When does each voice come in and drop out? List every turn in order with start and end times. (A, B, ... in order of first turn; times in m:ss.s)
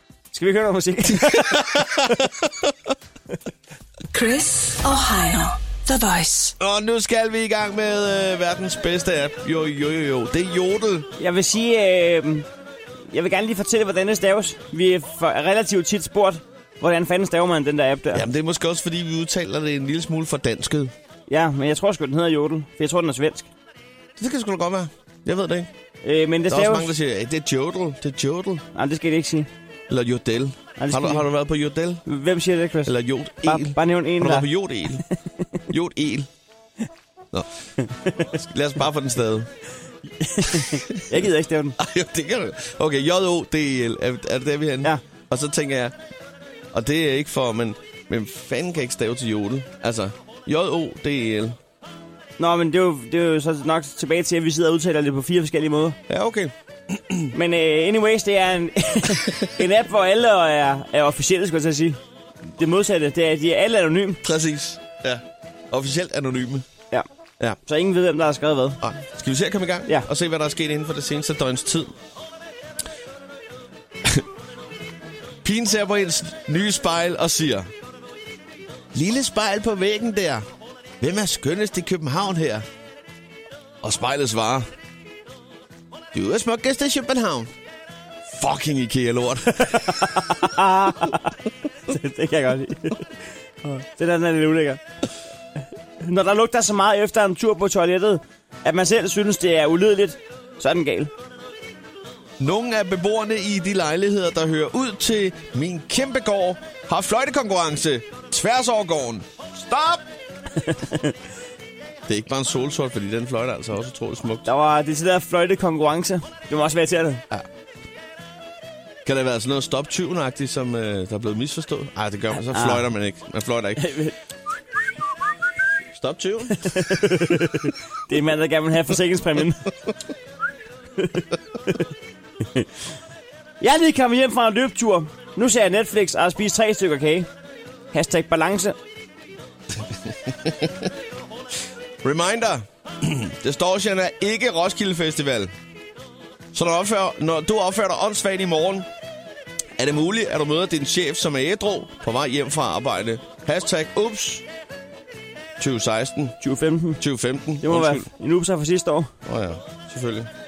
0:00.3-0:02.0 A
0:01.3-0:02.7 B
0:04.1-0:06.5 C
0:06.6-0:11.1 B
0:11.2-0:12.5 A
0:13.1-0:18.2 A
0:18.1-0:20.9 B
0:21.3-0:23.5 A
0:24.2-0:25.7 B
0:26.0-0:26.9 A
0:26.5-0:28.6 B
0:28.7-0:29.5 A
0:29.9-0:32.0 B
0:30.8-0:31.2 A
0:32.0-0:34.5 A
0:32.8-0:35.0 B
0:35.7-0:36.3 B
0:37.3-0:37.7 B
0:38.2-0:39.5 B
0:40.2-0:41.8 A
0:41.8-0:45.9 B
0:46.7-0:51.6 B
0:52.4-0:56.0 A
0:56.1-0:57.3 B
0:57.3-1:04.2 A
1:04.2-1:06.7 B
1:07.6-1:08.8 A
1:08.8-1:11.9 B
1:15.4-1:17.7 B
1:18.9-1:20.4 B
1:21.0-1:22.6 B
1:23.8-1:24.7 B
1:26.1-1:27.5 B
1:28.2-1:30.0 B
1:29.7-1:31.3 A
1:31.9-1:34.8 A
1:36.0-1:41.1 A
1:42.4-1:50.0 B
1:50.7-1:51.1 A
1:52.1-1:54.5 B
1:54.4-1:57.2 A
1:59.0-2:03.9 B
2:02.4-2:02.9 A
2:03.8-2:04.1 A
2:05.9-2:06.7 B
2:06.6-2:09.6 A
2:11.0-2:11.8 A
2:13.6-2:17.3 A
2:17.9-2:18.8 A
2:19.8-2:20.9 B
2:22.0-2:25.5 B
2:26.5-2:28.9 B
2:29.8-2:34.4 B
2:35.6-2:36.4 B
2:36.4-2:37.0 A
2:37.0-2:38.1 B
2:37.6-2:39.1 A
2:39.2-2:40.3 B